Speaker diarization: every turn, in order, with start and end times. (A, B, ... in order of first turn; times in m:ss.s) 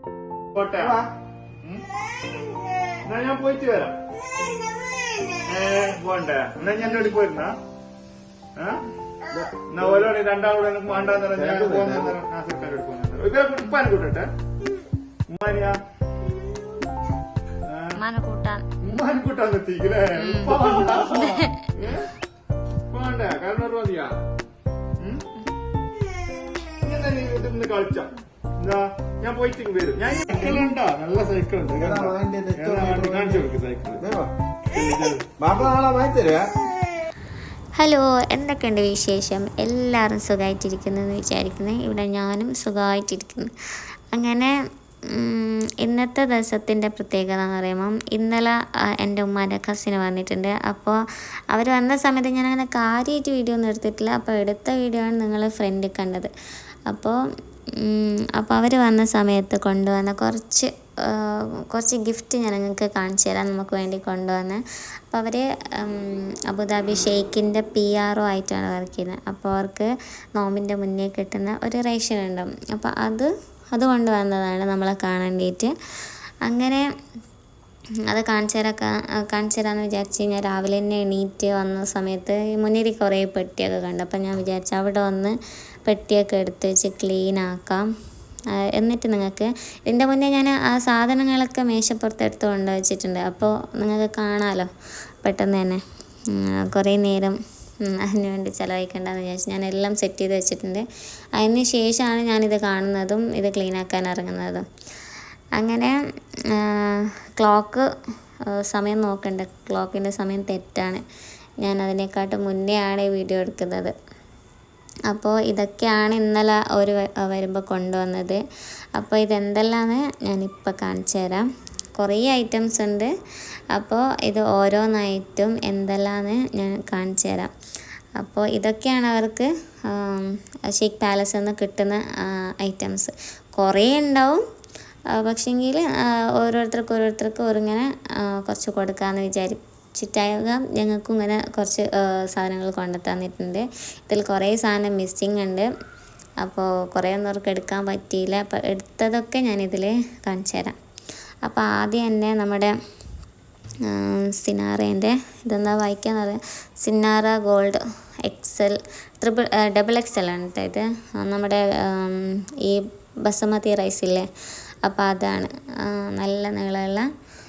0:00.6-0:01.0 A
0:00.8-0:01.1 B
0:03.0-0:04.0 A
0:05.4-0:07.6 A
0:08.6-0:08.8 A
0:09.3-0:10.2 B
0:09.7-0:14.3 A
0:11.3-0:12.2 B
0:15.3-0:15.8 A
0:17.7-0:18.0 A
0:17.9-0:18.7 C
0:18.8-0:22.1 A
0:20.2-0:21.7 C
0:22.9-0:24.2 A
0:25.0-0:25.2 A
0:26.8-0:34.1 A
0:31.8-0:34.3 B
0:34.7-0:35.3 A
0:35.4-0:36.5 B
0:37.8-0:43.5 C
0:44.1-0:56.3 C
0:56.9-0:57.2 C
0:57.8-1:15.7 C
1:16.4-1:16.9 C
1:18.1-1:27.9 C
1:28.5-1:34.7 C
1:35.2-1:44.7 C
1:45.6-1:46.0 C
1:46.5-1:47.9 C
1:48.5-1:51.0 C
1:51.6-1:54.0 C
1:55.1-1:58.4 C
1:59.0-2:03.1 C
2:03.7-2:07.5 C
2:08.2-2:14.4 C
2:15.1-2:25.7 C
2:26.4-2:30.8 C
2:31.4-2:32.8 C
2:33.8-2:44.3 C
2:44.8-2:47.1 C